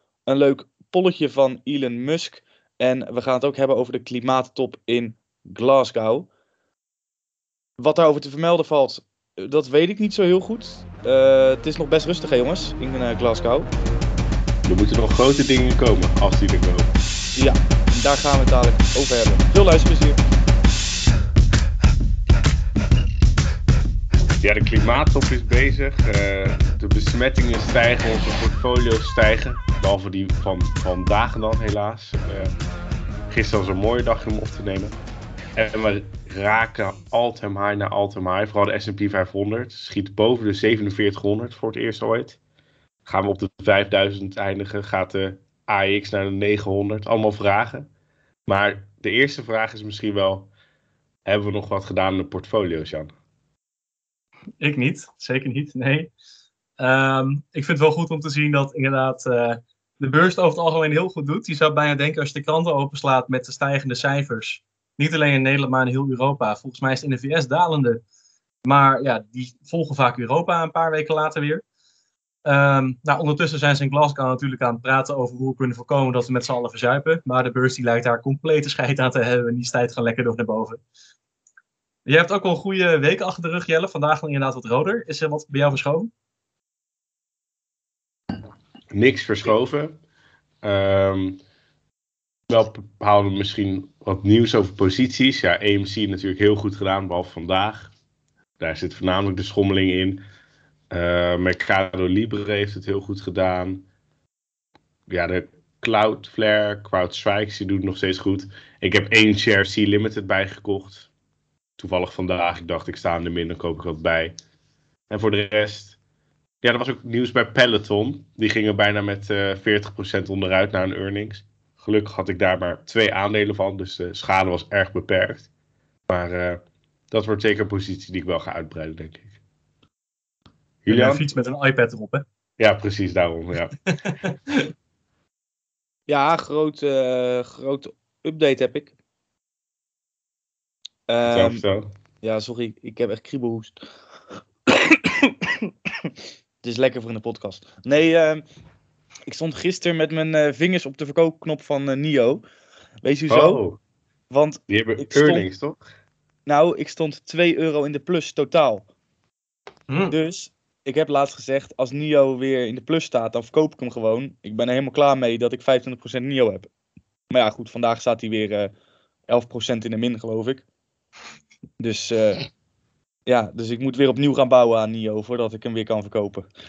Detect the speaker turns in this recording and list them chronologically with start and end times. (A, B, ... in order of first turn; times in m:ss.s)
0:00.2-0:06.3 A
0:07.8-0:13.7 A
0:14.6-0:16.9 B
0:17.4-0:20.2 A
0:24.4-0:32.5 B
0:33.3-0:35.0 B
0:35.5-0:42.4 B
0:43.0-0:47.9 B
0:48.5-0:50.5 B
0:51.2-0:53.1 B
0:54.6-0:56.1 C
0:56.8-1:08.0 C
1:08.6-1:11.6 C
1:12.4-1:20.8 C
1:22.0-1:26.1 C
1:28.9-1:30.0 B
1:30.6-1:31.4 B
1:32.5-1:37.9 B
1:38.6-1:40.2 B
1:40.9-1:43.8 B
1:45.1-1:51.1 B
1:51.8-1:54.3 B
1:55.1-1:56.0 B
1:56.6-2:05.5 B
2:06.1-2:09.4 B
2:10.8-2:11.2 B
2:10.9-2:12.2 C
2:12.6-2:13.7 B
2:13.8-2:14.7 C
2:16.1-2:18.9 A
2:21.1-2:21.6 A
2:21.2-2:21.9 B
2:22.2-2:23.8 A
2:24.7-2:25.3 A
2:26.6-2:28.4 A
2:29.2-2:32.4 A
2:33.0-2:33.6 A
2:33.3-2:33.8 B
2:34.3-2:35.4 A
2:34.7-2:35.8 B
2:36.4-2:38.8 A
2:39.9-2:40.1 C
2:40.1-2:46.7 A
2:47.3-2:48.7 A
2:49.3-2:50.6 A
2:51.8-2:52.4 A
2:53.2-2:56.5 A